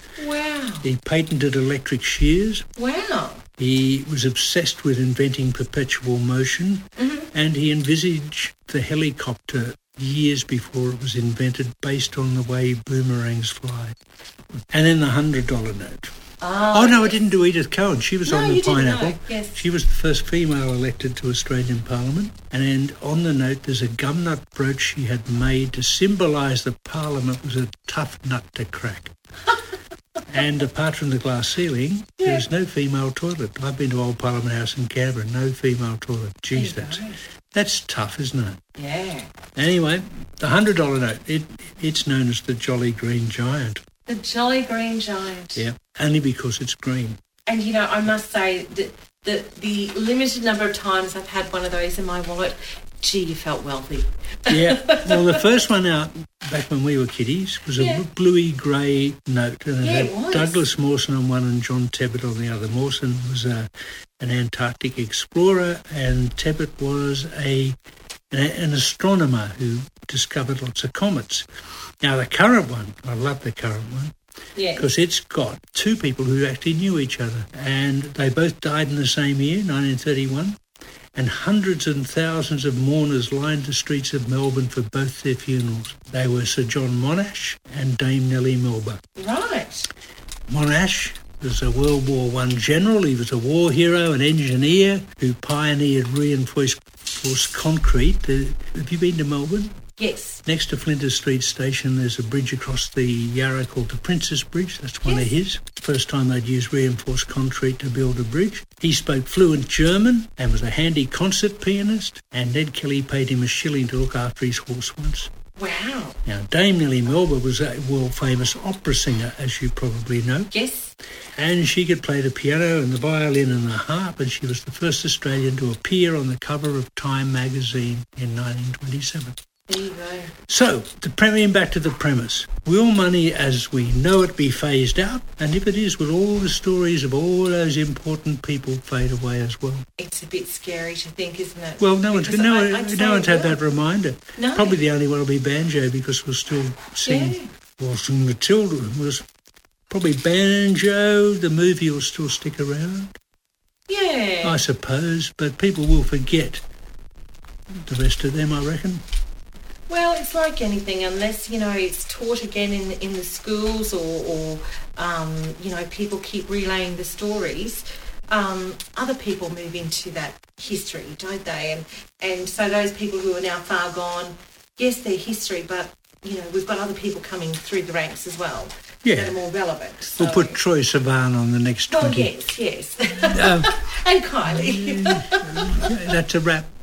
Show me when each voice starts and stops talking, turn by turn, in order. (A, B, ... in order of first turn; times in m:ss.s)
0:00.2-0:00.9 A
0:00.8-0:02.6 B
0:02.8-0:03.4 A
0:03.6-0:14.0 B
0:07.0-0:07.3 A
0:14.7-0:16.1 B
0:16.4-0:17.2 A
0:16.7-0:29.1 B
0:18.3-0:19.6 A
0:30.3-0:38.6 B
0:36.5-0:37.2 A
0:38.8-0:39.3 A
0:39.6-0:43.8 B
0:44.1-0:45.6 A
0:45.6-0:47.2 B
0:47.5-0:55.3 A
0:54.5-1:07.8 B
0:57.8-0:58.0 A
0:59.8-1:00.7 A
1:08.3-1:11.5 B
1:12.0-1:14.1 B
1:14.6-1:14.9 A
1:14.8-1:20.6 B
1:21.2-1:29.0 B
1:29.2-1:29.9 A
1:30.5-1:39.7 B
1:40.0-1:40.4 A
1:40.5-1:55.3 B
1:45.0-1:45.4 A
1:55.6-1:56.2 A
1:56.2-2:00.5 B
2:00.5-2:00.9 A
2:01.4-2:09.4 B
2:09.7-2:10.3 A
2:10.5-2:19.9 B
2:20.0-2:23.6 A
2:21.8-2:29.2 B
2:24.4-2:24.8 A
2:27.1-2:27.5 A
2:29.9-2:33.2 B
2:33.9-2:34.6 A
2:34.4-2:36.6 B
2:37.8-2:39.0 B
2:39.9-3:00.6 A
2:59.0-2:59.4 B
3:00.2-3:02.3 B
3:01.9-3:05.9 A
3:03.3-3:03.8 B
3:04.4-3:06.7 B